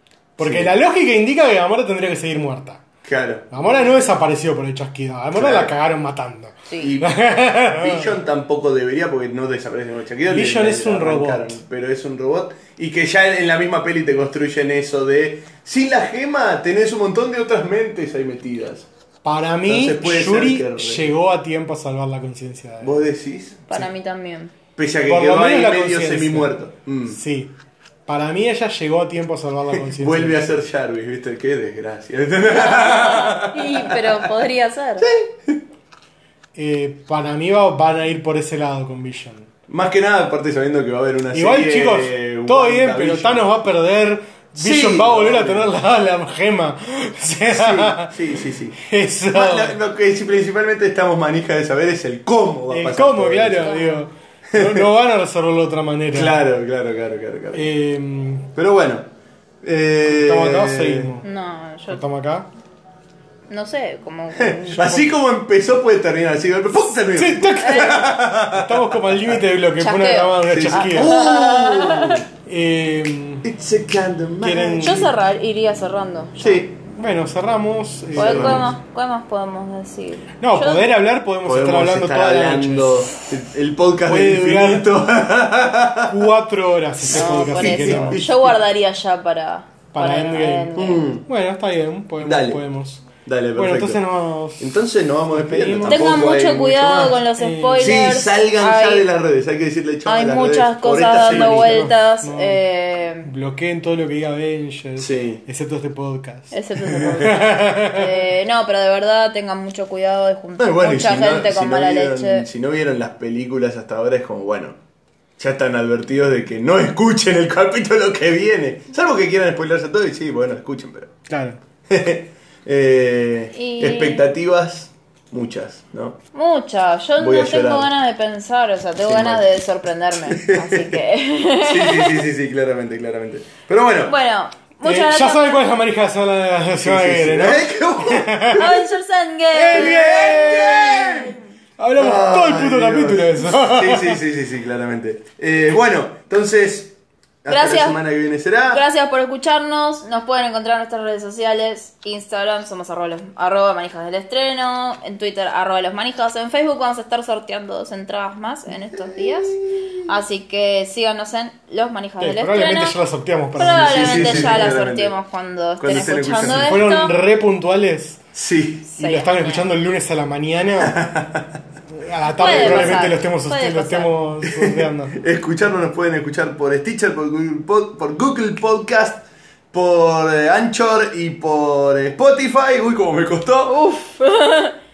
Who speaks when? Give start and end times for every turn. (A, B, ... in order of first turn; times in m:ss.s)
0:00.4-0:02.8 A
0:00.4-0:00.7 B
0:03.0-0:04.0 B
0:03.5-0:08.2 A
0:05.3-0:05.7 B
0:06.7-0:06.9 C
0:06.8-0:18.9 B
0:10.3-0:11.6 A
0:19.2-0:23.0 A
0:19.6-0:21.1 B
0:22.8-0:23.6 B
0:23.7-0:24.5 C
0:24.8-0:27.2 B
0:25.0-0:26.5 A
0:27.1-0:27.5 A
0:28.1-0:30.4 A
0:29.7-0:34.2 B
0:32.5-0:35.1 C
0:35.0-0:35.6 B
0:36.5-0:39.5 A
0:39.7-0:43.5 B
0:41.3-0:49.8 A
0:44.6-0:45.7 B
0:47.5-0:48.8 B
0:49.3-0:53.8 B
0:52.7-0:56.4 A
0:53.6-0:54.0 C
0:54.5-0:54.9 B
0:56.1-0:57.7 B
0:57.5-0:58.5 A
0:58.5-0:59.0 B
0:59.6-1:01.1 B
1:00.0-1:01.3 A
1:01.2-1:02.0 C
1:01.9-1:02.5 A
1:03.5-1:05.1 C
1:04.4-1:09.4 B
1:06.9-1:11.2 A
1:07.6-1:08.1 C
1:09.8-1:12.2 C
1:10.4-1:12.2 B
1:12.4-1:13.5 A
1:13.4-1:15.1 B
1:14.4-1:15.1 A
1:14.8-1:16.6 C
1:16.4-1:16.7 B
1:16.8-1:18.7 A
1:18.1-1:18.7 B
1:18.1-1:20.9 C
1:20.4-1:23.2 A
1:21.4-1:26.2 B
1:24.0-1:24.9 A
1:26.1-1:28.2 A
1:27.0-1:28.5 B
1:27.1-1:31.1 C
1:29.9-1:36.2 A
1:30.7-1:31.2 B
1:32.2-1:32.6 B
1:33.2-1:34.0 B
1:34.6-1:37.2 B
1:35.8-1:39.1 C
1:37.4-1:38.0 A
1:37.8-1:41.9 B
1:40.0-1:43.3 C
1:41.3-1:42.6 A
1:43.2-1:46.5 A
1:45.0-1:45.4 B
1:46.5-1:52.4 C
1:46.8-1:47.3 B
1:47.2-1:48.2 A
1:50.6-1:54.8 B
1:55.4-2:01.1 B
2:01.3-2:01.6 A
2:01.9-2:06.2 B
2:03.5-2:04.2 C
2:06.3-2:12.2 C
2:07.2-2:07.9 B
2:09.0-2:09.4 B
2:10.3-2:11.0 B
2:11.6-2:14.2 B
2:14.0-2:15.6 C
2:14.8-2:18.8 A
2:16.8-2:18.8 B
2:18.5-2:21.3 C
2:19.5-2:24.2 A
2:19.7-2:21.4 B
2:22.0-2:28.8 B
2:27.5-2:28.0 C
2:28.7-2:43.0 C
2:38.9-2:40.0 B
2:42.2-2:44.8 A
2:43.5-2:47.1 C
2:43.8-2:45.1 B
2:45.8-2:46.8 B
2:46.4-2:48.2 A
2:48.3-2:48.9 B
2:48.9-2:49.7 C
2:49.0-2:51.0 A
2:50.8-2:51.5 B
2:51.9-2:55.2 A
2:52.3-2:54.1 C
2:52.4-2:52.9 B
2:54.4-3:03.8 B
3:03.7-3:04.8 C